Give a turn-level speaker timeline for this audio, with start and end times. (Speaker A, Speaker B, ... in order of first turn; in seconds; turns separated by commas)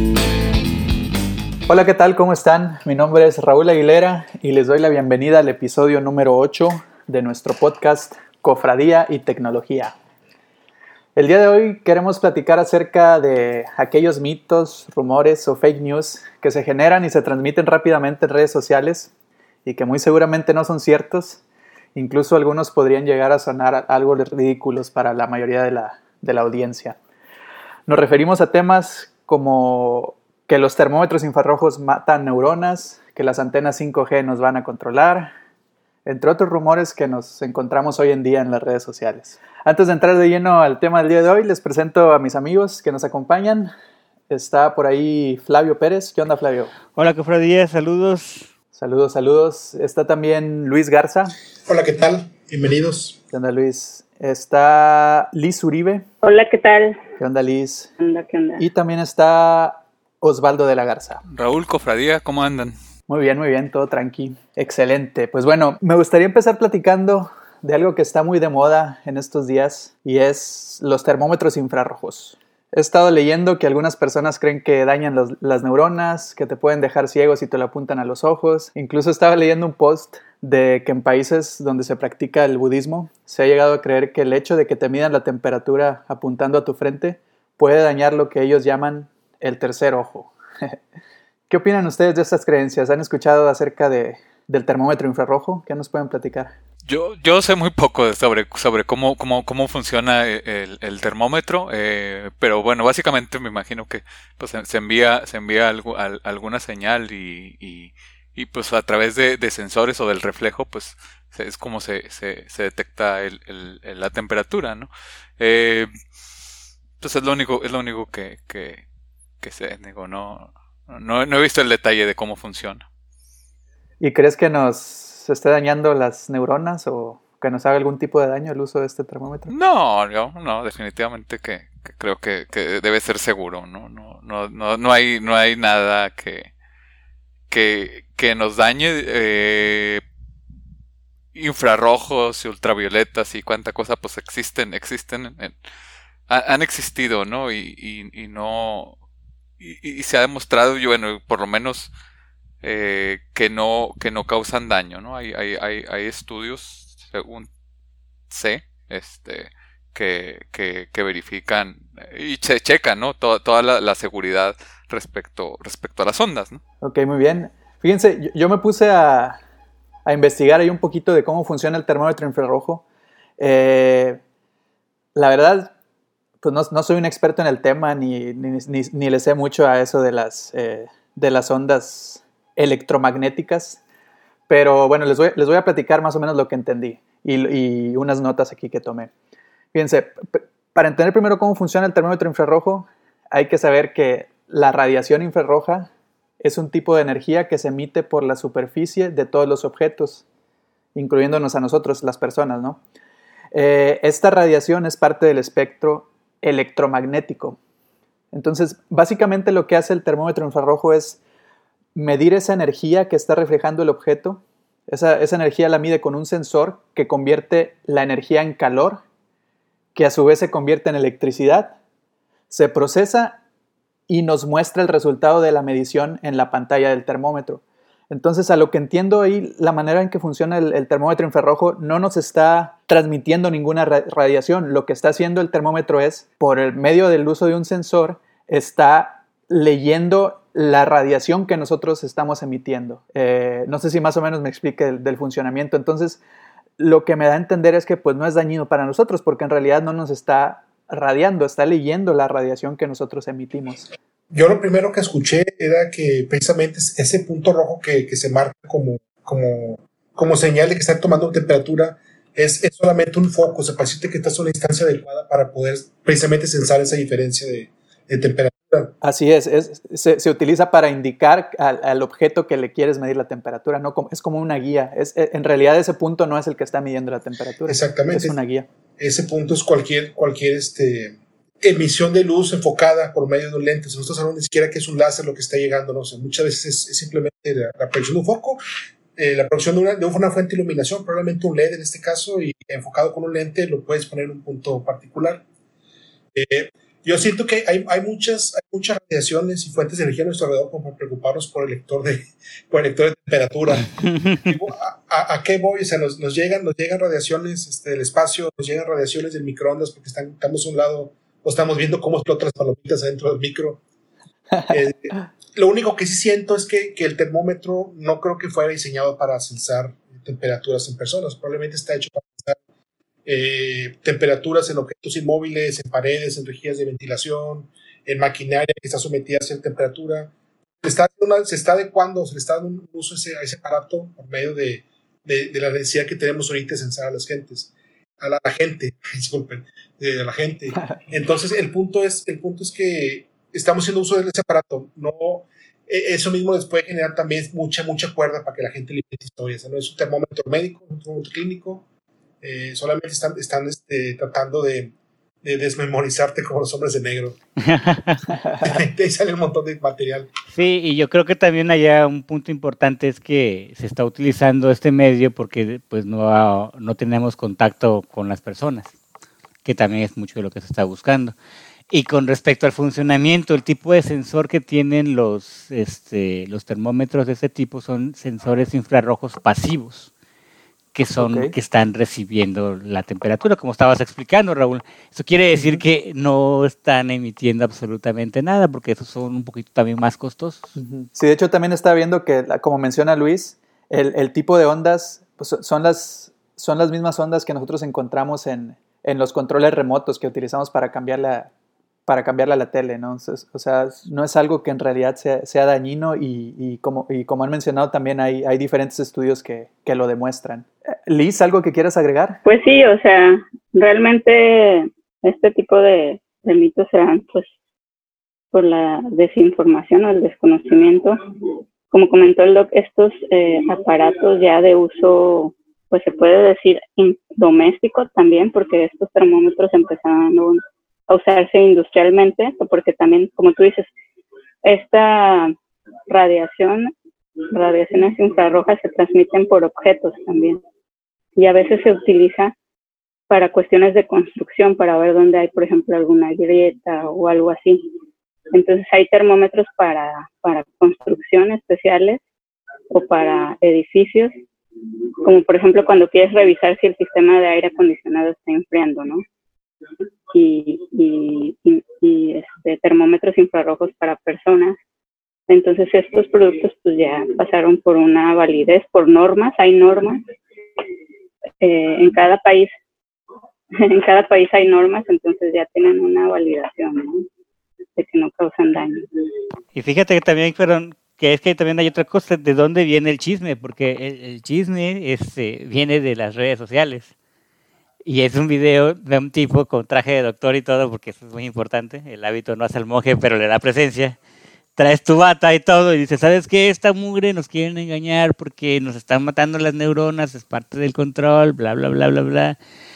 Speaker A: 1.7-9.9, Speaker A: 11.2-19.1, Speaker A: 19.6-21.4, Speaker A: 21.9-27.0, Speaker A: 27.9-35.3, Speaker A: 36.1-43.7, Speaker A: 44.3-46.7, Speaker B: 46.9-48.5, Speaker A: 48.7-51.4, Speaker C: 51.7-53.2, Speaker A: 53.3-56.1, Speaker D: 56.2-57.0, Speaker A: 57.2-57.9, Speaker D: 58.0-58.6, Speaker A: 58.6-61.2, Speaker E: 61.3-62.7, Speaker A: 63.1-90.8, Speaker A: 91.5-96.5, Speaker E: 96.9-115.9, Speaker E: 117.0-118.8, Speaker E: 119.4-122.8, Speaker A: 124.0-129.5, Speaker E: 129.5-136.5, Speaker E: 137.5-140.0, Speaker E: 141.3-145.6, Speaker E: 146.3-149.0, Speaker E: 149.6-151.9, Speaker E: 152.6-157.5, Speaker E: 158.3-166.6, Speaker A: 166.8-169.4, Speaker A: 170.1-172.8, Speaker A: 173.4-174.2, Speaker A: 175.2-175.7, Speaker A: 176.4-183.8, Speaker A: 184.5-189.1, Speaker A: 189.7-200.2, Speaker A: 200.9-202.8, Speaker A: 203.5-207.6, Speaker A: 208.3-211.2, Speaker A: 211.9-219.0, Speaker A: 219.9-221.8, Speaker A: 222.5-223.4, Speaker A: 224.1-246.2, Speaker A: 246.8-253.9, Speaker C: 254.3-268.9, Speaker A: 269.0-278.7, Speaker C: 277.7-278.4, Speaker C: 279.0-288.6, Speaker C: 289.2-295.4, Speaker C: 296.3-313.8, Speaker C: 314.7-322.6, Speaker C: 323.3-351.8, Speaker C: 352.4-357.4, Speaker B: 357.6-358.2, Speaker C: 358.6-360.3, Speaker B: 360.5-368.9, Speaker B: 369.6-371.4, Speaker B: 371.9-380.1, Speaker B: 380.9-390.7, Speaker A: 381.2-381.5, Speaker A: 385.5-385.8, Speaker A: 390.8-401.5, Speaker A: 402.1-412.4, Speaker D: 412.4-417.5, Speaker D: 418.5-421.2, Speaker D: 421.9-433.9, Speaker D: 434.6-435.6, Speaker D: 436.1-436.9, Speaker D: 437.5-440.6, Speaker D: 441.4-442.6, Speaker D: 443.3-447.8, Speaker D: 448.5-452.2, Speaker D: 452.9-454.3, Speaker D: 455.2-459.2, Speaker D: 460.3-464.8, Speaker D: 465.5-470.2, Speaker D: 471.6-472.7, Speaker D: 473.8-477.2, Speaker D: 478.0-479.1, Speaker B: 479.8-487.1, Speaker B: 488.0-494.2, Speaker B: 494.8-502.6